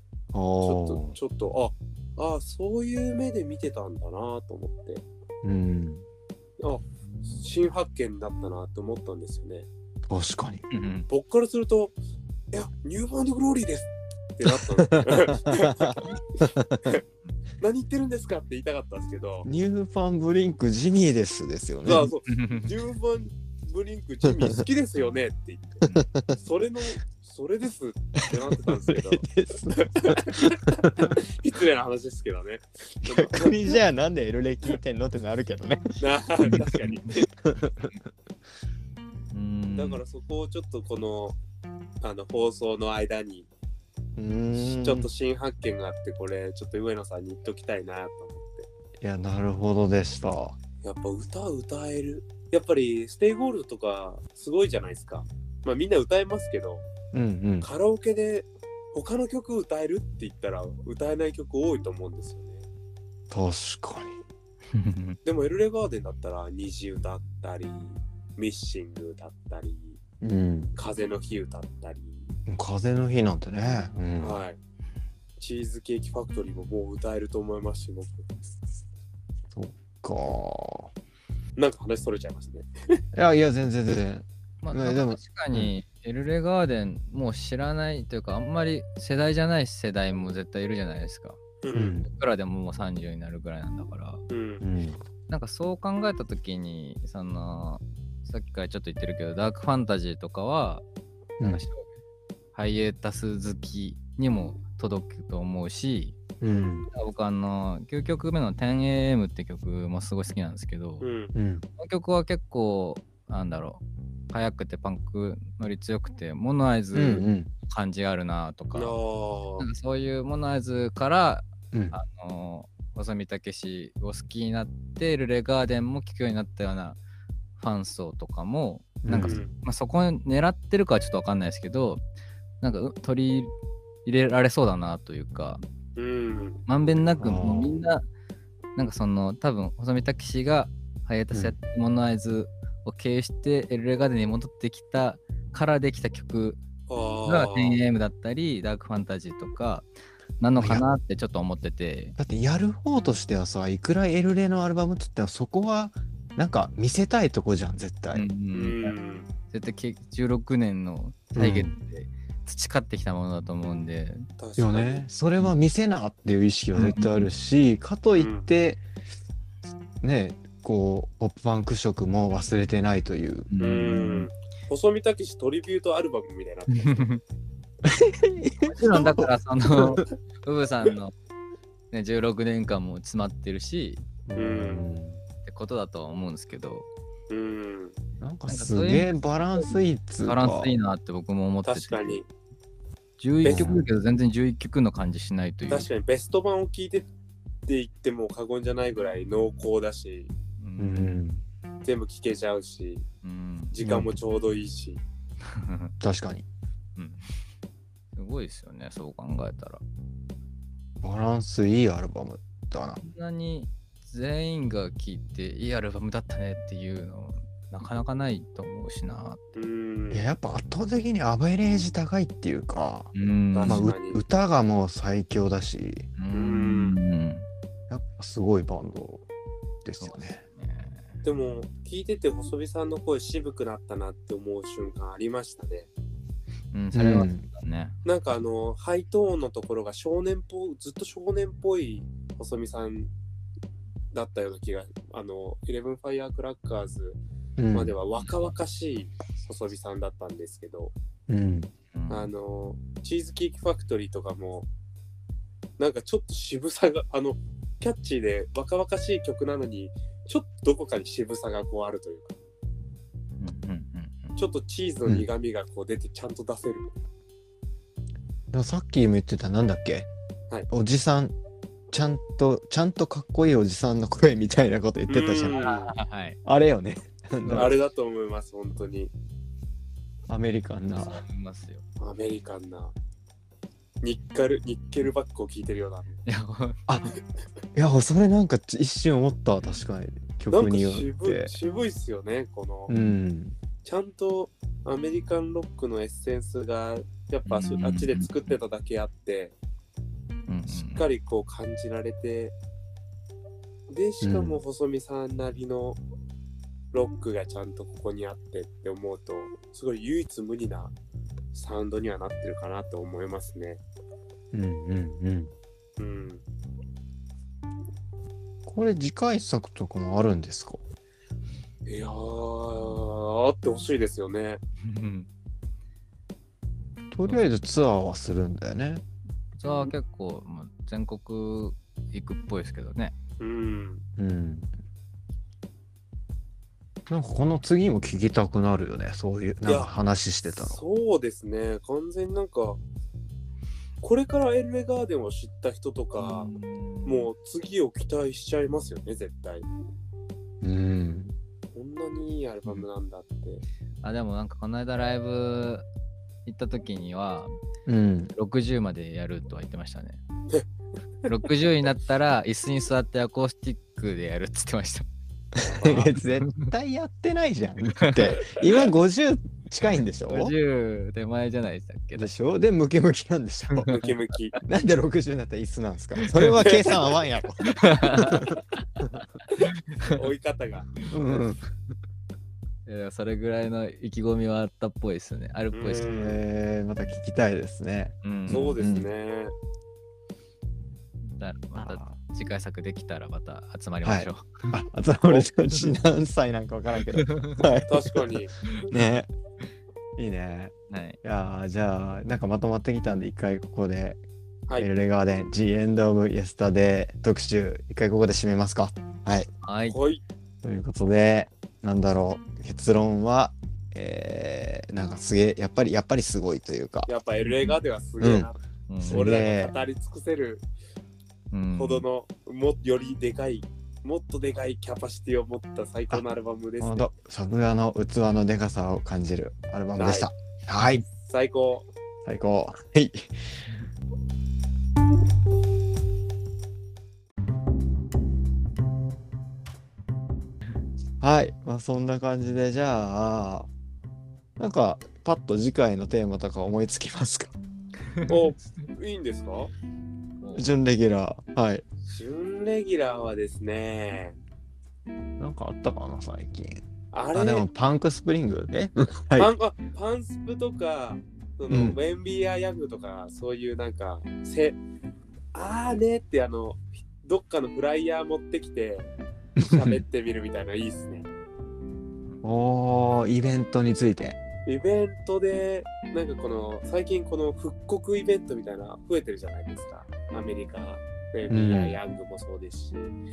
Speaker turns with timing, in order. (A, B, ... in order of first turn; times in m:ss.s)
0:00.3-0:01.2 A
0:00.6-0:05.0 B
0:05.4-0:06.0 A
0:06.6-0:09.7 B
0:07.0-0:07.4 C
0:10.1-0:10.6 A
0:10.7-0:11.1 C
0:11.1-0:11.9 B
0:12.5-0:16.1 B
0:14.4-0:17.0 A
0:17.6-0:19.5 B
0:19.4-0:22.1 A
0:21.8-0:25.8 B
0:22.3-0:22.7 C
0:25.9-0:26.4 A
0:26.3-0:33.8 B
0:28.3-0:31.1 A
0:33.0-0:36.0 A
0:36.0-0:37.3 B
0:37.4-0:37.9 A
0:39.3-0:40.0 C
0:39.8-0:41.4 B
0:42.0-0:43.5 B
0:44.2-0:45.1 A
0:44.5-0:48.7 B
0:49.0-0:50.6 A
0:50.8-0:56.9 B
0:57.1-0:57.7 A
0:57.6-1:02.6 B
1:03.3-1:04.2 A
1:04.7-1:05.2 C
1:05.2-1:10.0 B
1:10.2-1:10.7 A
1:10.7-1:12.3 B
1:12.5-1:14.4 A
1:14.2-1:14.6 B
1:15.4-1:18.2 B
1:19.5-1:20.9 A
1:21.6-1:23.0 B
1:23.1-1:25.7 A
1:24.6-1:31.4 C
1:31.6-1:32.0 B
1:31.7-1:32.1 A
1:32.1-1:34.2 C
1:34.3-1:34.6 B
1:34.6-1:35.0 A
1:35.3-1:40.8 C
1:41.4-1:41.6 A
1:41.4-1:42.0 C
1:42.5-1:46.2 C
1:46.4-1:46.9 A
1:46.9-1:51.1 C
1:51.0-1:51.3 B
1:51.3-1:51.6 A
1:51.8-1:59.0 C
1:56.9-1:57.5 A
1:58.7-1:59.7 B
1:59.6-2:07.0 C
2:01.7-2:02.0 A
2:07.6-2:12.0 C
2:09.0-2:09.4 A
2:09.2-2:09.5 B
2:12.6-2:13.5 C
2:14.0-2:15.6 C
2:16.0-2:16.6 B
2:16.7-2:18.0 C
2:17.2-2:17.8 A
2:18.8-2:26.6 C
2:26.9-2:27.8 B
2:27.2-2:29.9 C
2:30.4-2:32.2 C
2:30.6-2:30.8 A
2:32.2-2:38.3 A
2:38.1-2:38.9 C
2:38.5-2:39.3 B
2:39.5-2:44.3 C
2:41.3-2:41.7 A
2:44.4-2:45.0 B
2:44.6-2:48.8 A
2:46.7-2:47.3 C
2:48.2-2:48.5 B
2:50.0-2:53.5 A
2:53.5-2:54.3 C
2:53.6-2:57.0 B
2:56.7-2:57.2 C
2:57.8-2:59.3 A
2:58.6-3:01.1 C
3:01.9-3:04.1 C
3:04.3-3:05.2 A
3:04.4-3:04.8 B
3:05.4-3:06.9 C
3:07.3-3:08.0 B
3:08.2-3:10.7 A
3:08.5-3:12.2 C
3:11.6-3:12.2 B
3:13.2-3:15.9 C
3:13.4-3:13.8 A
3:13.4-3:13.8 B
3:15.7-3:17.1 B
3:17.7-3:20.3 B
3:20.6-3:21.2 C
3:20.8-3:21.4 A
3:21.8-3:23.0 B
3:23.2-3:23.7 C
3:23.7-3:25.0 B
3:23.8-3:24.1 A
3:25.4-3:25.9 C
3:26.0-3:26.4 A
3:27.0-3:27.3 C
3:28.2-3:29.8 C
3:31.0-3:33.0 A
3:33.0-3:39.4 C
3:39.5-3:40.2 B
3:40.1-3:43.1 A
3:43.1-3:43.9 C
3:43.5-3:44.2 B
3:43.6-3:46.1 A
3:46.2-3:47.5 C
3:46.3-3:47.0 B
3:47.9-3:49.2 A
3:49.8-3:50.4 A
3:50.0-3:51.2 C
3:51.2-3:55.9 B
3:56.7-3:58.0 C
3:56.9-3:57.4 A
3:58.0-4:03.1 B
4:04.1-4:07.2 B
4:07.6-4:07.9 A
4:07.7-4:10.9 B
4:08.2-4:08.5 C
4:11.3-4:11.7 A
4:11.9-4:12.3 C
4:12.1-4:14.7 B
4:15.8-4:22.4 B
4:23.4-4:24.4 C
4:24.4-4:26.9 B
4:28.5-4:30.1 A
4:30.7-4:31.3 A
4:31.9-4:35.6 A
4:35.1-4:35.9 B
4:35.5-4:36.4 C
4:36.4-4:37.8 A
4:37.4-4:37.7 C
4:37.5-4:39.1 B
4:40.3-4:41.2 A
4:41.0-4:41.8 C
4:42.0-4:42.9 B
4:44.0-4:46.2 B
4:46.2-4:46.8 C
4:46.9-4:47.1 A
4:47.7-4:51.5 A
4:50.5-4:52.9 B
4:52.9-4:53.6 A
4:53.8-4:59.5 B
4:57.4-4:58.5 C
5:00.5-5:01.1 C
5:00.7-5:02.6 B
5:03.9-5:06.0 B
5:04.2-5:04.6 A
5:06.9-5:10.9 B
5:11.5-5:13.8 B
5:14.5-5:15.5 A
5:16.0-5:16.4 B
5:18.6-5:20.8 A
5:21.8-5:24.6 B
5:24.8-5:25.3 C
5:27.1-5:29.0 A
5:29.6-5:33.1 C
5:33.4-5:34.0 B
5:34.2-5:34.7 A
5:37.1-5:40.8 A
5:39.7-5:39.9 B
5:40.5-5:42.8 B
5:44.0-5:46.5 B
5:46.2-5:47.3 C
5:47.0-5:49.7 B
5:50.6-5:51.3 A
5:51.7-5:53.6 B
5:54.0-5:55.8 C
5:56.4-5:57.5 C
5:57.8-5:58.3 A
5:58.3-6:00.2 C
6:01.2-6:05.0 C
6:05.6-6:10.5 A
6:05.6-6:06.1 B
6:06.5-6:06.7 C
6:07.9-6:08.5 C
6:10.3-6:12.3 C
6:12.2-6:13.9 A
6:13.7-6:14.1 C
6:13.9-6:14.6 B
6:14.6-6:19.0 A
6:16.6-6:17.1 B
6:17.6-6:20.1 C
6:20.0-6:21.4 B
6:21.1-6:21.6 A
6:22.8-6:26.1 C
6:25.7-6:26.4 B
6:26.1-6:29.1 A
6:28.2-6:28.8 C
6:28.5-6:29.5 B
6:31.2-6:34.6 C
6:31.7-6:32.1 A
6:34.0-6:39.3 A
6:37.2-6:37.6 C
6:37.9-6:38.6 B
6:40.2-6:44.2 A
6:40.9-6:41.2 C
6:44.8-6:49.5 A
6:49.6-6:50.0 C
6:49.9-6:50.2 B
6:50.6-6:57.1 A
6:57.1-6:58.6 B
6:57.4-6:57.8 C
6:58.2-6:58.5 A
6:58.9-6:59.3 C
6:59.0-6:59.7 A
6:59.1-7:00.6 B
7:01.5-7:02.0 C
7:01.7-7:07.1 B
7:06.8-7:11.0 A
7:10.0-7:10.3 B
7:11.2-7:11.9 B
7:12.2-7:13.3 A
7:21.2-7:23.7 A
7:24.6-7:27.5 A
7:28.3-7:29.7 B
7:30.4-7:30.7 C
7:30.5-7:31.8 A
7:32.1-7:34.4 B
7:35.4-7:36.8 A
7:37.1-7:37.7 B
7:37.3-7:39.5 A
7:39.4-7:44.8 B
7:41.7-7:42.0 A
7:45.5-7:49.1 B
7:49.6-7:50.0 A
7:49.7-7:51.3 B
7:52.4-7:54.4 A
7:54.6-8:03.2 B
8:01.5-8:02.0 A